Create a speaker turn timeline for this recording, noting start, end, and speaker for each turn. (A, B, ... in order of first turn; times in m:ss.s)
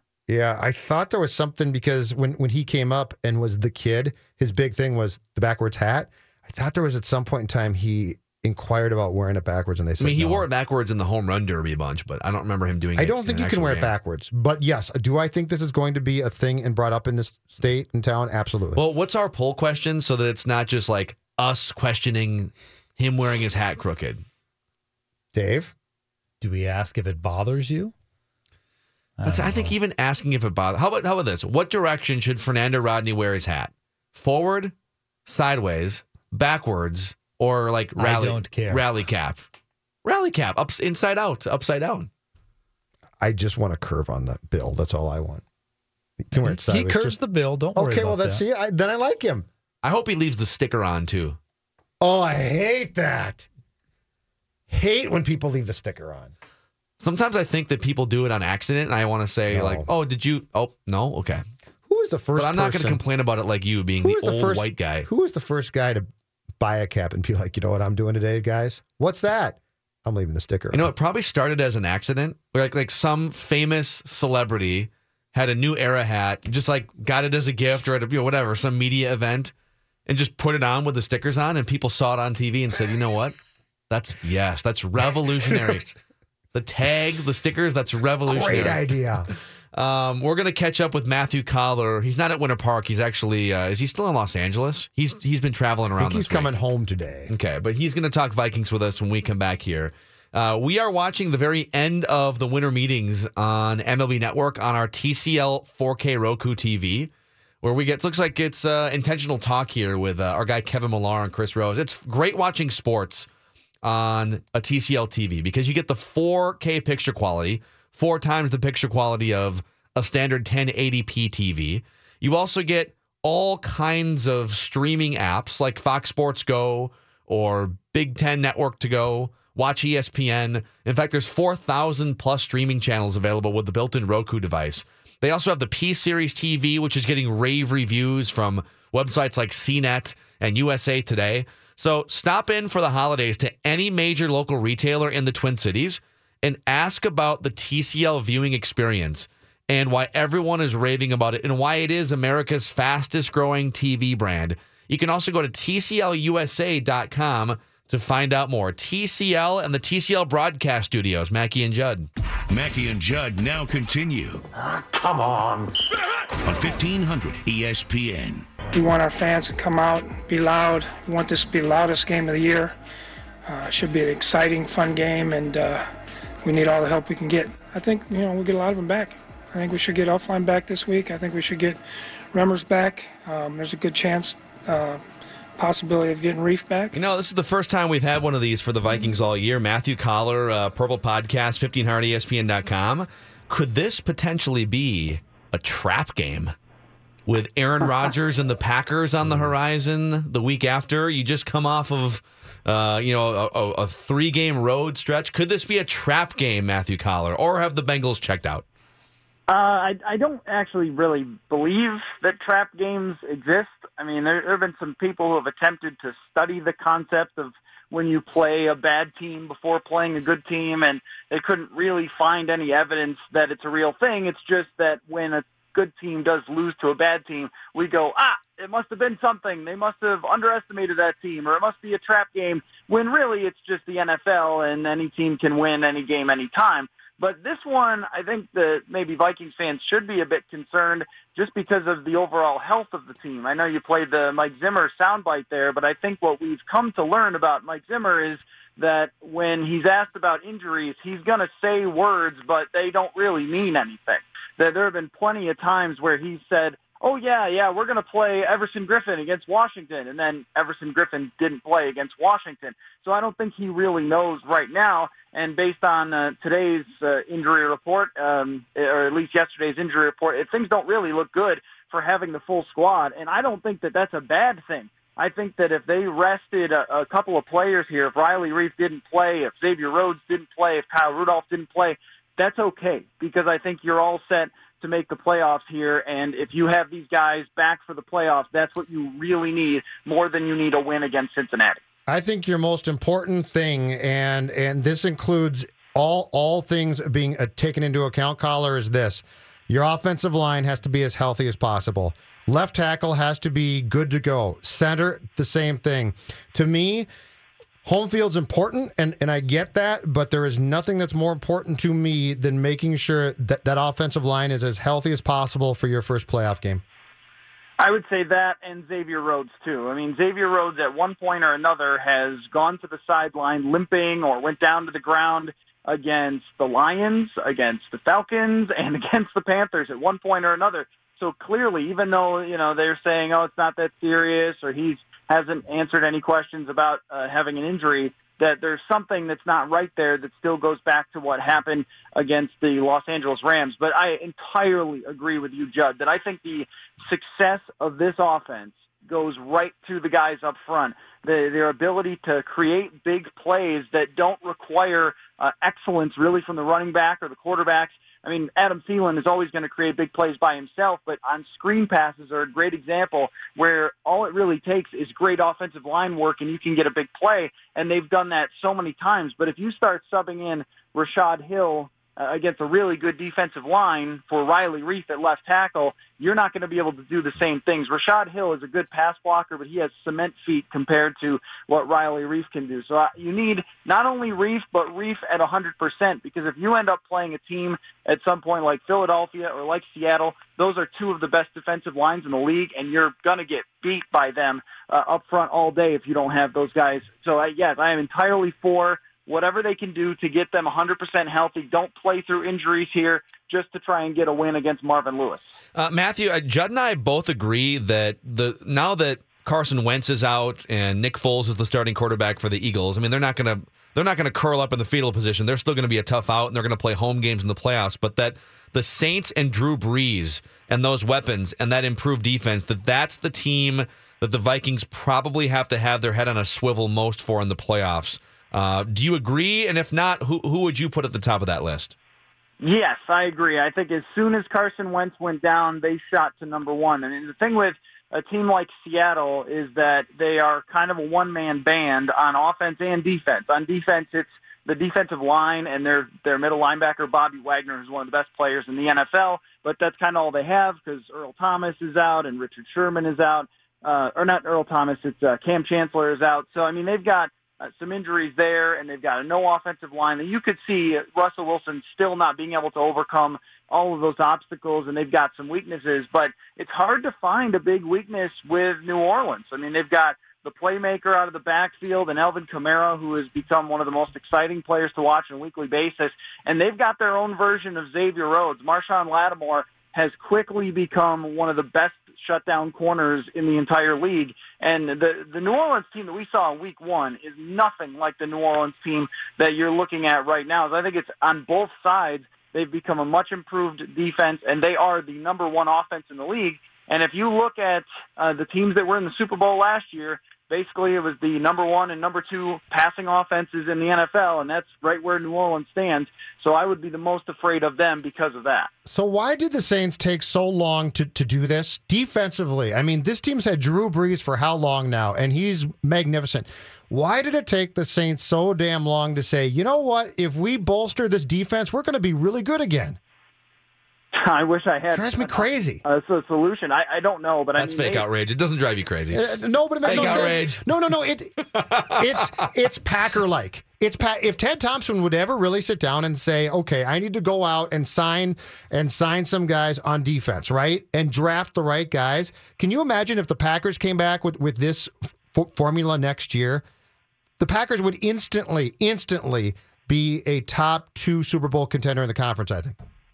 0:00.3-0:10.5 A
0:10.0-0:13.9 B
0:13.0-0:18.8 A
0:18.8-0:24.2 B
0:25.3-0:25.7 A
0:26.4-0:27.9 C
0:29.2-0:29.7 C
0:29.2-0:34.7 B
0:35.3-0:39.5 B
0:38.0-0:38.8 C
0:40.0-0:42.1 B
0:43.2-0:45.4 A
0:46.2-0:47.2 A
0:46.3-0:48.4 C
0:47.8-0:49.5 A
0:49.8-0:51.4 B
0:52.0-0:53.5 A
0:54.7-0:56.3 A
0:57.0-1:01.4 B
0:59.5-0:59.9 A
1:01.9-1:03.0 A
1:02.4-1:05.1 B
1:04.0-1:06.1 A
1:06.6-1:10.9 A
1:10.7-1:19.5 B
1:20.1-1:23.4 B
1:23.9-1:26.0 B
1:25.5-1:25.8 A
1:26.5-1:28.8 B
1:28.3-1:29.3 A
1:29.7-1:36.5 B
1:36.0-1:37.3 A
1:37.3-1:47.1 B
1:47.6-1:53.3 B
1:53.8-2:42.1 B
2:42.5-2:44.4 D
2:45.0-2:45.6 A
2:46.4-2:48.5 D
2:48.7-2:52.7 E
2:53.5-2:55.9 E
2:56.4-3:01.8 E
3:02.3-3:05.0 E
3:05.6-3:06.9 E
3:06.9-3:16.5 B
3:17.3-3:28.6 B
3:29.5-4:51.8 F
4:52.1-5:07.1 A
5:07.8-5:16.8 A
5:17.8-6:45.5 F
6:45.8-7:12.0 B
7:12.6-8:28.7 F
8:28.9-8:43.0 A
8:44.2-8:48.0 F
8:44.9-8:45.8 A
8:47.6-8:49.3 B
8:49.1-9:06.6 A
8:49.8-8:50.7 B
8:51.5-8:52.2 B
9:07.4-9:12.8 A